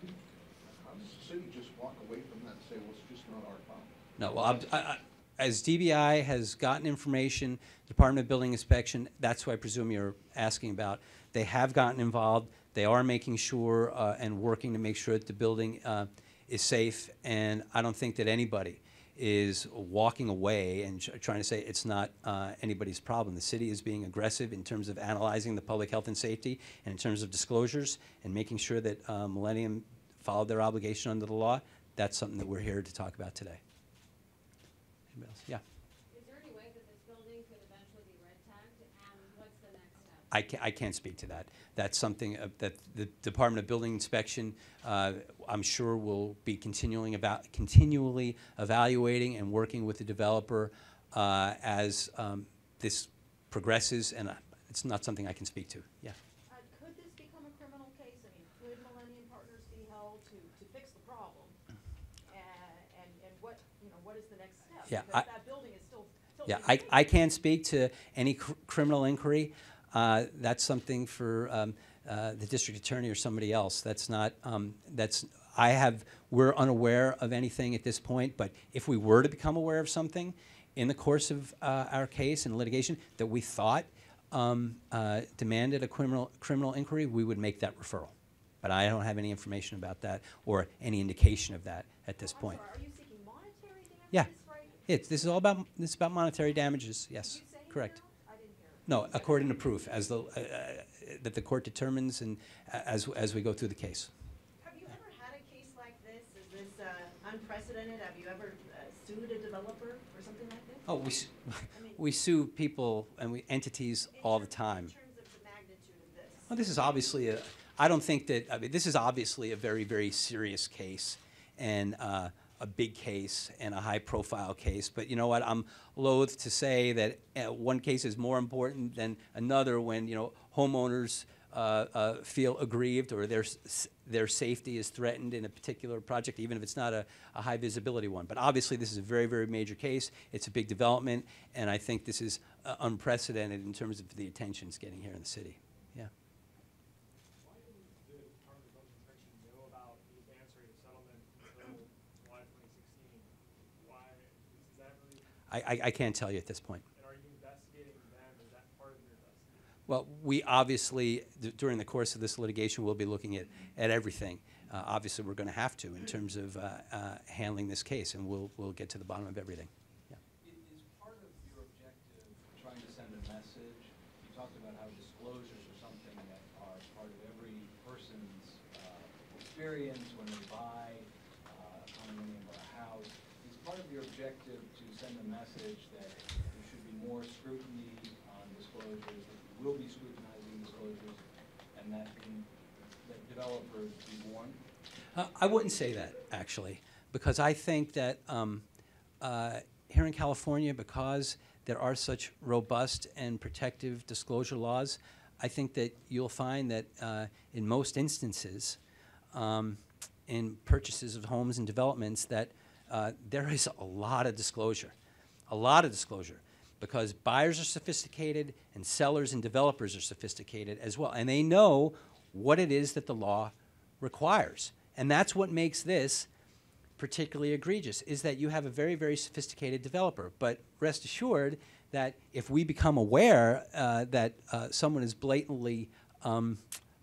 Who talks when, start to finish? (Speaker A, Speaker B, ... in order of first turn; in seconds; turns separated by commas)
Speaker A: 0.6-3.9, Speaker B: 4.2-33.6, Speaker B: 35.1-35.6, Speaker C: 36.1-40.3, Speaker B: 40.3-56.2, Speaker D: 56.5-61.5, Speaker D: 62.3-67.0, Speaker B: 64.9-65.2, Speaker B: 66.5-92.6, Speaker D: 92.2-94.8, Speaker B: 94.9-98.0, Speaker D: 97.2-99.5, Speaker B: 98.8-104.1, Speaker D: 104.6-111.0, Speaker B: 110.8-114.9, Speaker D: 111.7-112.0, Speaker D: 114.1-116.5, Speaker B: 116.5-146.1, Speaker E: 147.4-155.3, Speaker B: 155.5-156.8, Speaker E: 156.9-159.7, Speaker B: 159.9-169.7, Speaker F: 170.4-191.2, Speaker F: 191.7-194.6, Speaker B: 195.1-198.6, Speaker B: 199.2-208.8, Speaker B: 209.3-214.9, Speaker B: 215.5-226.3, Speaker B: 227.0-236.6